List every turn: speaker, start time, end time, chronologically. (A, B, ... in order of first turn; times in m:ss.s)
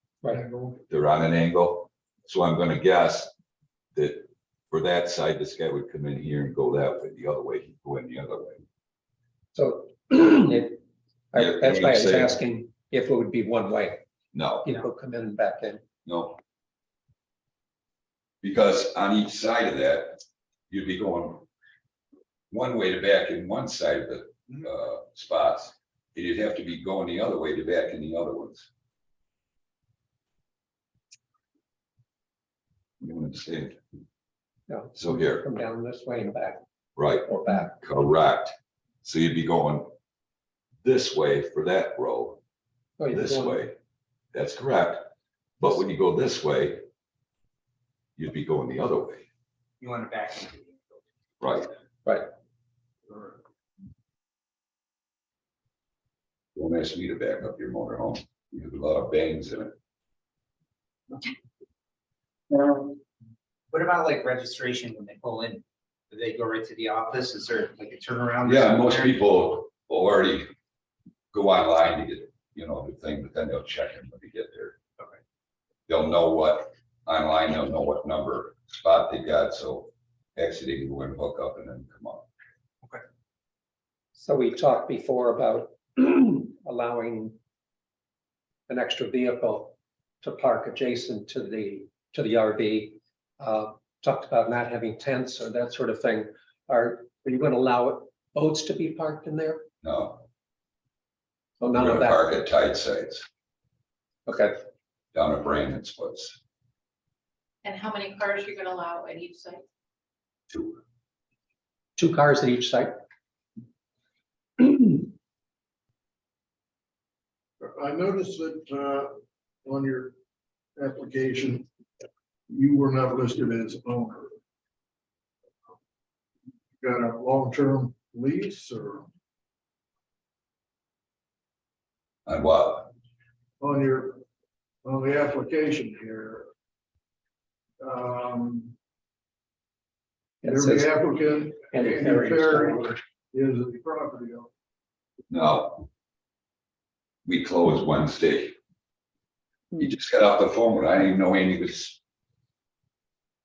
0:00.3-0:00.8 A
0:00.9-0:03.3 B
0:04.0-0:08.6 B
0:09.6-0:10.8 C
0:11.3-0:14.0 C
0:11.4-0:12.4 B
0:14.3-0:14.7 B
0:14.6-0:15.8 C
0:16.0-0:16.4 B
0:18.4-0:21.5 B
0:22.5-0:28.7 B
0:33.0-0:33.8 B
0:34.7-0:36.6 C
0:35.0-0:35.4 B
0:37.0-0:39.9 B
0:37.3-0:37.8 C
0:40.8-0:42.4 B
0:43.0-0:43.6 C
0:43.1-0:43.8 B
0:44.3-0:46.8 B
0:48.2-0:49.2 B
0:49.8-0:51.0 D
0:51.4-0:51.7 B
0:53.1-0:53.4 A
0:56.6-0:59.8 B
1:02.6-1:02.8 D
1:03.7-1:09.2 D
1:08.4-1:10.5 B
1:11.3-1:14.8 B
1:15.9-1:22.3 B
1:24.2-1:27.4 C
1:28.7-1:39.7 C
1:39.8-1:40.3 B
1:41.6-1:42.2 C
1:41.7-1:43.3 B
1:44.3-1:44.6 C
1:45.1-1:46.4 B
1:47.6-1:49.6 E
1:50.5-1:50.8 B
1:52.0-1:52.9 C
1:54.6-1:54.9 C
1:57.6-2:00.2 A
2:00.8-2:01.7 A
2:02.5-2:04.3 A
2:06.8-2:09.1 A
2:12.3-2:12.9 B
2:13.6-2:14.2 A
2:14.8-2:16.5 A
2:17.8-2:18.7 A
2:20.4-2:20.9 C
2:20.4-2:24.5 A
2:21.7-2:23.0 C
2:25.3-2:25.9 B
2:27.2-2:28.6 B
2:29.8-2:32.0 B